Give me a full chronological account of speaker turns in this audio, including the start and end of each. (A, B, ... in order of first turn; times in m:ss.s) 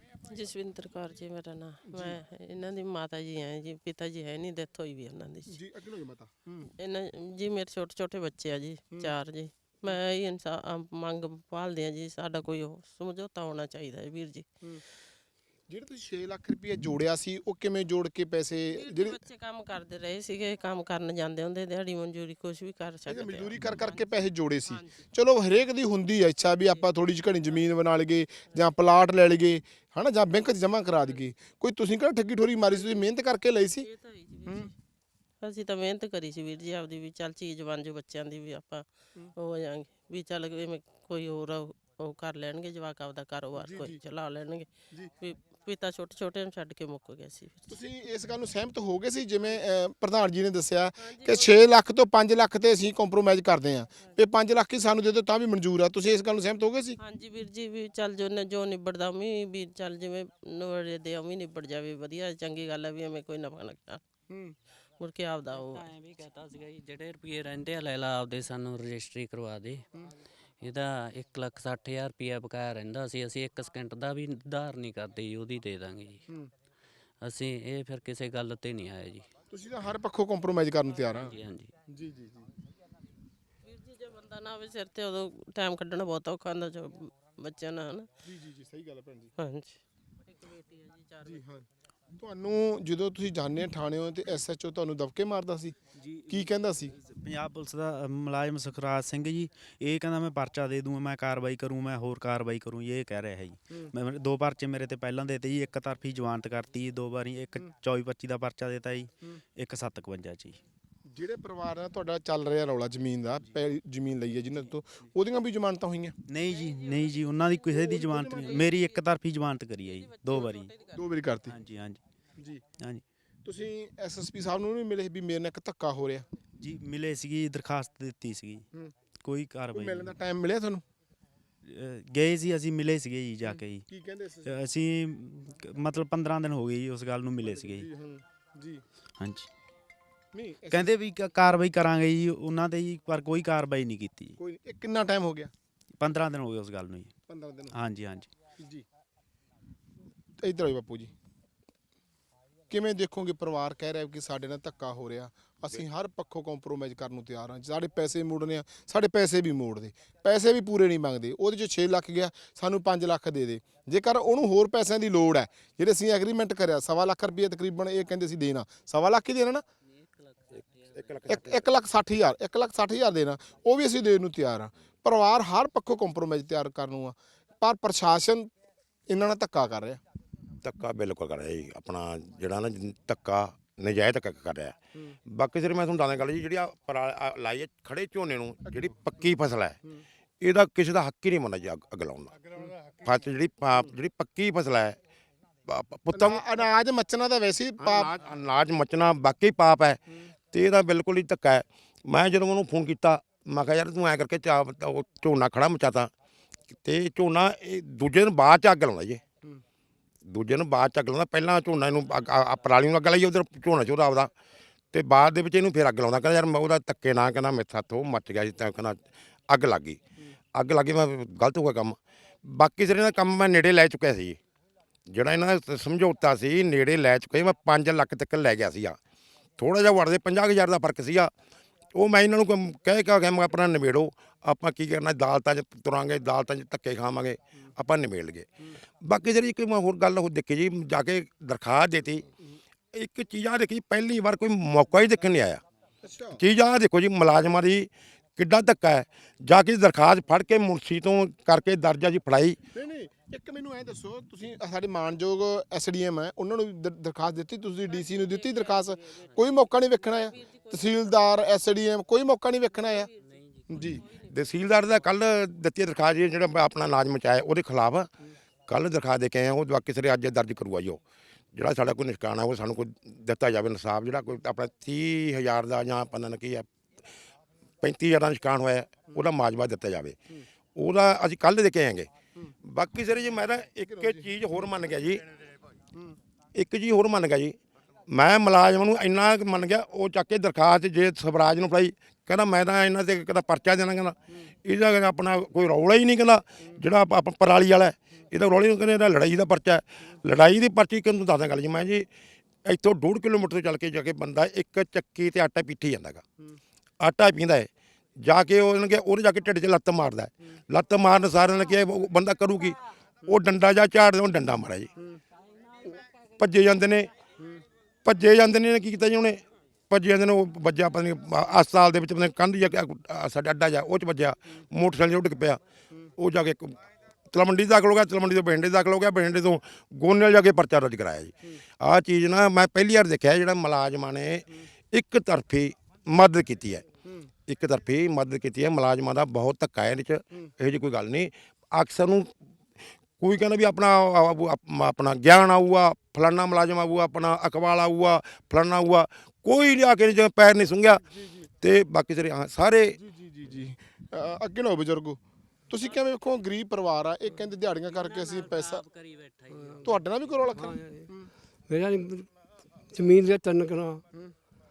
0:00.3-0:05.6 A
0:01.9-0:02.2 B
0:05.5-0:06.7 B
0:06.8-0:14.5 A
0:15.7-0:19.2 B
0:18.7-0:24.1 A
0:23.1-0:33.9 B
0:24.7-0:25.0 A
0:33.8-0:34.7 A
0:34.5-0:34.7 B
0:35.4-0:44.7 A
0:43.6-0:44.0 B
0:45.2-0:47.8 A
0:47.7-0:57.0 B
0:51.0-0:51.6 A
0:57.0-1:04.0 A
1:04.3-1:04.6 B
1:05.0-1:05.9 A
1:05.5-1:09.8 C
1:10.6-1:16.2 C
1:17.2-1:19.2 C
1:19.5-1:21.4 B
1:21.1-1:21.7 C
1:21.9-1:22.5 B
1:23.6-1:28.1 A
1:28.2-1:29.3 B
1:29.4-1:31.4 A
1:31.2-1:35.8 B
1:36.0-1:50.6 D
1:36.3-1:36.9 B
1:51.1-1:56.2 B
1:56.3-2:00.7 D
1:56.4-1:59.1 A
1:57.7-1:58.6 B
1:59.8-2:01.0 A
2:00.9-2:01.6 B
2:01.5-2:02.0 D
2:02.8-2:03.0 D
2:03.4-2:06.3 B
2:06.6-2:08.7 D
2:09.2-2:10.2 D
2:09.7-2:10.8 B
2:11.6-2:13.9 D
2:13.9-2:14.5 B
2:14.4-2:17.9 D
2:17.4-2:18.8 B
2:19.2-2:19.5 D
2:20.3-2:20.9 B
2:20.7-2:24.4 D
2:24.4-2:25.5 B
2:26.0-2:27.1 D
2:27.3-2:27.7 B
2:27.7-2:28.3 D
2:28.6-2:28.8 B
2:30.4-2:31.1 B
2:32.7-2:49.6 B
2:49.9-2:51.4 C
2:51.0-2:51.5 E
2:51.3-2:58.5 B
2:59.1-3:00.0 B
3:00.6-3:04.8 E
3:05.3-3:09.8 E
3:10.4-3:15.0 E
3:15.7-3:16.5 E
3:16.1-3:18.1 B
3:17.8-3:20.0 E
3:20.5-3:26.1 E
3:26.8-3:29.2 E
3:30.3-3:34.3 E
3:34.9-3:40.0 E
3:40.6-3:44.4 E
3:45.1-3:49.0 E
3:49.6-3:51.3 E
3:52.0-3:58.5 E
3:59.0-4:02.2 E
4:02.9-4:05.6 E
4:06.0-4:06.4 B
4:06.4-4:12.6 E
4:12.7-4:23.1 B
4:17.9-4:21.5 A
4:22.7-4:25.1 A
4:23.2-4:23.7 C
4:23.7-4:24.0 B
4:24.3-4:28.1 E
4:28.7-4:31.0 E
4:31.6-4:36.7 E
4:37.8-4:40.2 E
4:40.8-4:42.1 E
4:42.6-4:45.3 E
4:43.9-4:44.2 B
4:46.6-4:47.6 E
4:48.1-5:02.1 E
5:02.7-5:06.2 E
5:07.0-5:07.7 E
5:08.2-5:14.9 E
5:16.4-5:17.1 E
5:18.0-5:25.6 E
5:26.2-5:26.8 E
5:27.3-5:36.8 E
5:37.5-5:42.3 E
5:43.2-5:51.0 E
5:51.1-5:51.4 B
5:51.6-5:53.0 E
5:53.0-5:58.8 B
5:57.9-6:00.2 C
5:59.5-5:59.8 F
5:59.8-6:01.3 B
6:00.5-6:01.1 F
6:01.7-6:02.3 F
6:02.9-6:04.0 F